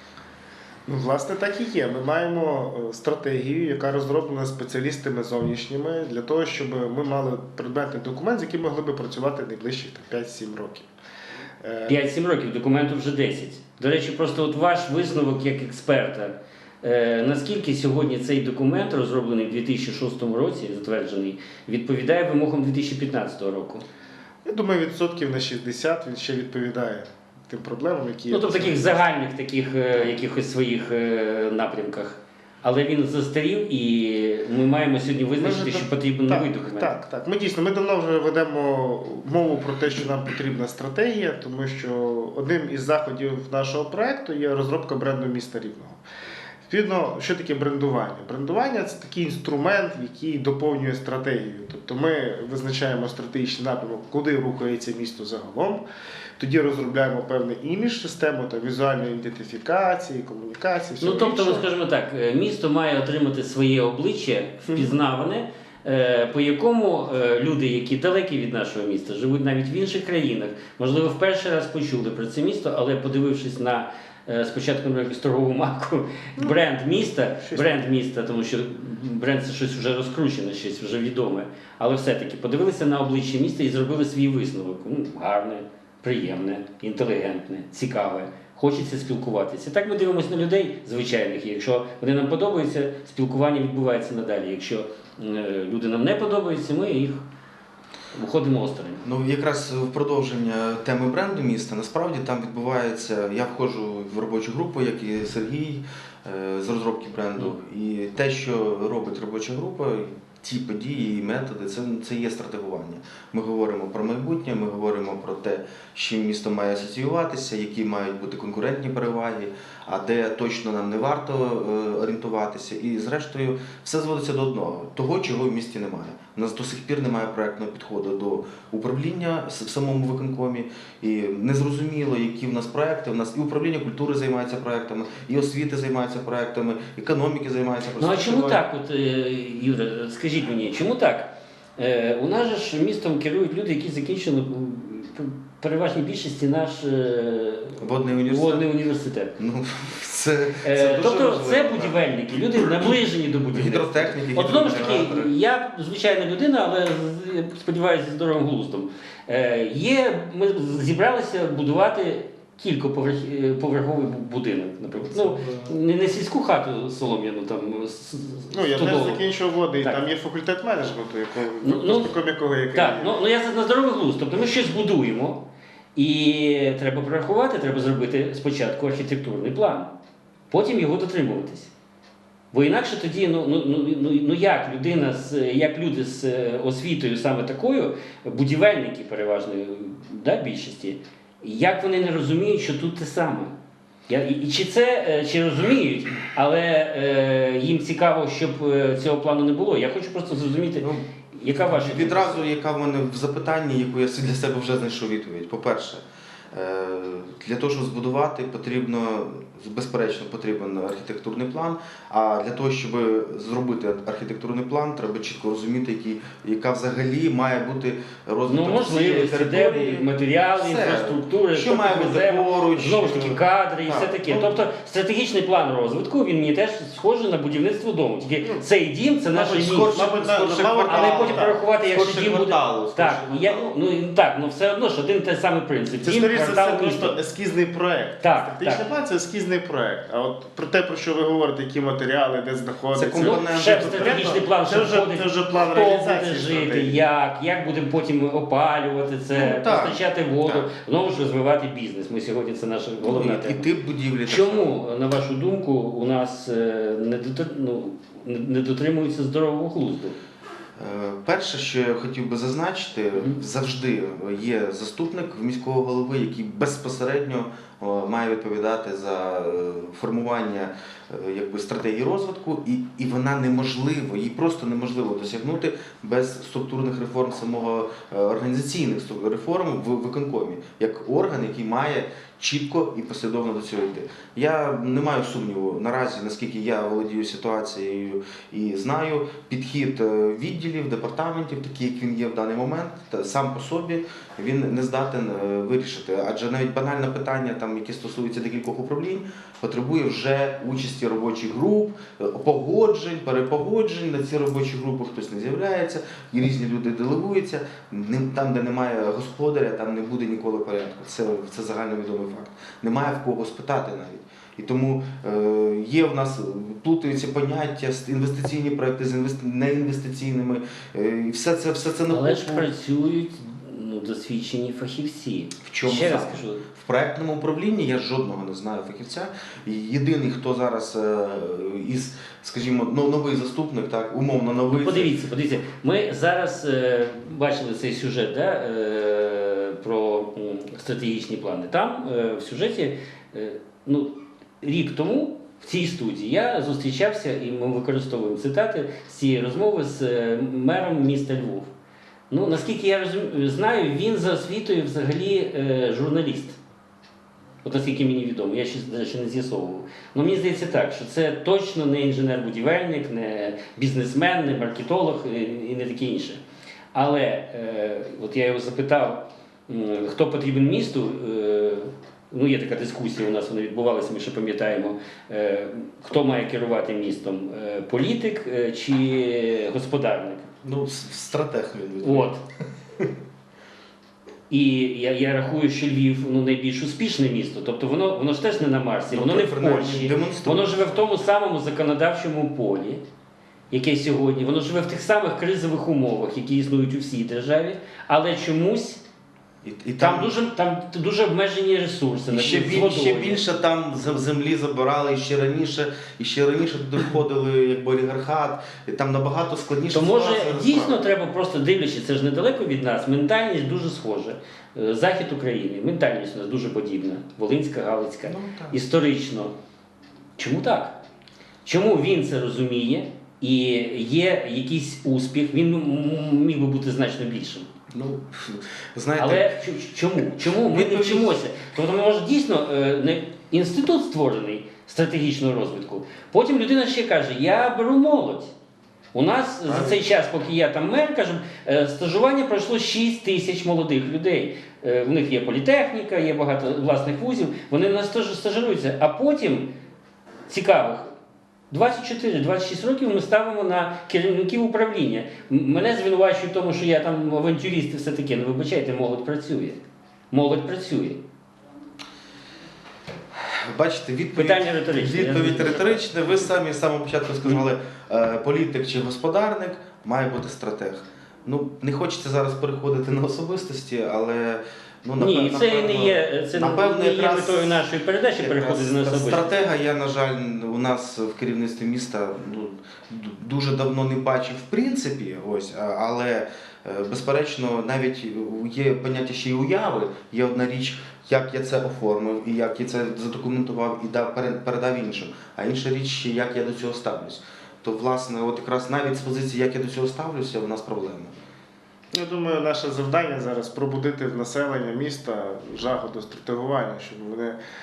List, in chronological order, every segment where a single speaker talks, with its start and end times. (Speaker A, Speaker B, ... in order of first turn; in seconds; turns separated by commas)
Speaker A: 0.9-10.9, Speaker A: 11.6-12.0, Speaker B: 11.9-23.8, Speaker A: 24.4-29.0, Speaker B: 28.3-36.9, Speaker A: 35.4-46.0, Speaker A: 46.7-55.8, Speaker A: 56.4-61.6, Speaker B: 61.0-97.2, Speaker A: 64.7-64.9, Speaker A: 77.4-77.7, Speaker B: 98.1-99.0, Speaker C: 99.0-138.6, Speaker B: 138.0-149.3, Speaker C: 147.8-148.7, Speaker C: 149.4-152.0, Speaker B: 150.6-169.2, Speaker C: 152.6-153.0, Speaker C: 153.5-155.3, Speaker C: 165.1-165.7, Speaker A: 168.5-173.1, Speaker B: 171.6-172.1, Speaker B: 172.7-175.4, Speaker B: 175.9-179.9, Speaker B: 180.5-181.7, Speaker B: 182.5-193.5, Speaker B: 194.1-202.4, Speaker C: 200.8-224.6, Speaker B: 218.4-230.1, Speaker C: 229.3-233.7, Speaker A: 229.8-231.5, Speaker B: 230.9-237.2, Speaker A: 236.0-247.0, Speaker B: 238.2-238.9, Speaker C: 242.9-244.4, Speaker B: 243.2-253.7, Speaker C: 249.3-250.7, Speaker C: 253.0-254.7, Speaker B: 254.2-260.2, Speaker C: 260.8-322.7, Speaker B: 322.1-326.6, Speaker C: 325.6-335.1, Speaker B: 334.7-351.7, Speaker B: 352.3-356.6, Speaker B: 357.6-366.4, Speaker B: 366.9-380.5, Speaker C: 380.6-382.3, Speaker B: 382.0-382.4, Speaker B: 384.5-393.0, Speaker C: 389.1-391.0, Speaker B: 393.7-399.0, Speaker C: 399.6-400.3, Speaker B: 400.0-403.4, Speaker C: 402.3-411.0, Speaker B: 409.9-419.5, Speaker C: 418.3-418.8, Speaker B: 420.4-421.0, Speaker B: 421.6-427.7, Speaker C: 427.9-429.5, Speaker B: 429.1-438.5, Speaker C: 430.6-431.4, Speaker B: 439.1-449.7, Speaker B: 450.5-451.1, Speaker B: 451.7-461.2, Speaker C: 463.3-477.9, Speaker B: 464.3-466.0, Speaker B: 475.2-479.7, Speaker C: 478.4-501.3, Speaker A: 502.1-507.6